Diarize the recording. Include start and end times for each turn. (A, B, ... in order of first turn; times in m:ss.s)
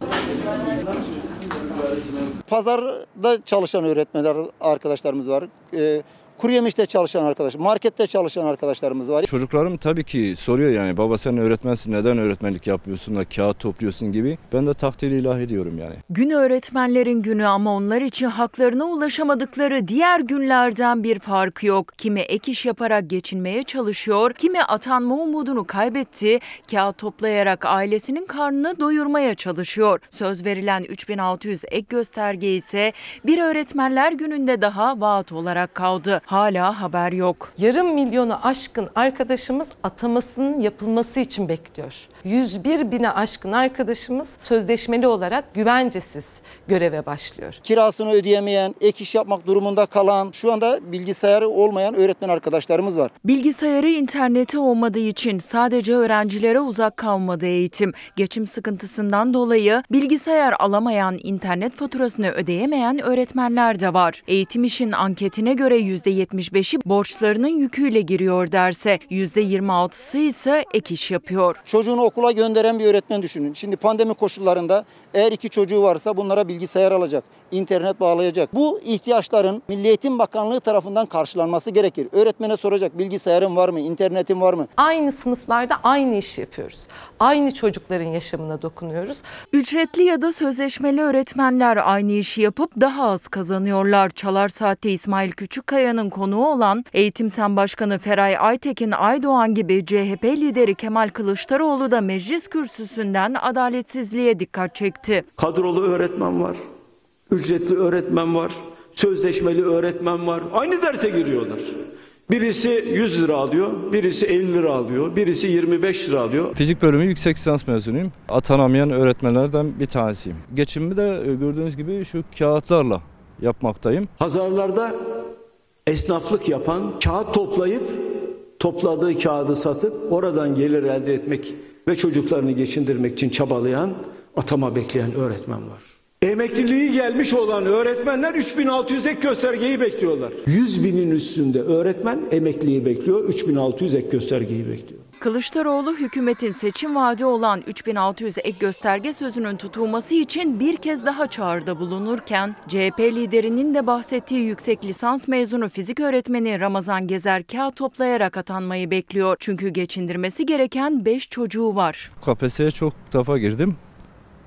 0:02.5-0:09.2 A
0:09.2-0:16.0 B
0:16.1-0:37.5 C
0:37.6-0:47.6 D
0:47.6-0:53.1 A
0:53.2-1:11.6 C
1:11.6-1:24.7 A
1:24.8-1:29.2 D
1:29.5-1:45.2 C
1:45.4-1:46.6 E
1:47.3-1:51.7 E
1:52.3-1:56.5 E
1:56.5-2:04.1 B
2:04.2-2:05.0 E
2:05.8-2:25.0 E
2:25.2-2:42.1 C
2:42.2-2:43.8 B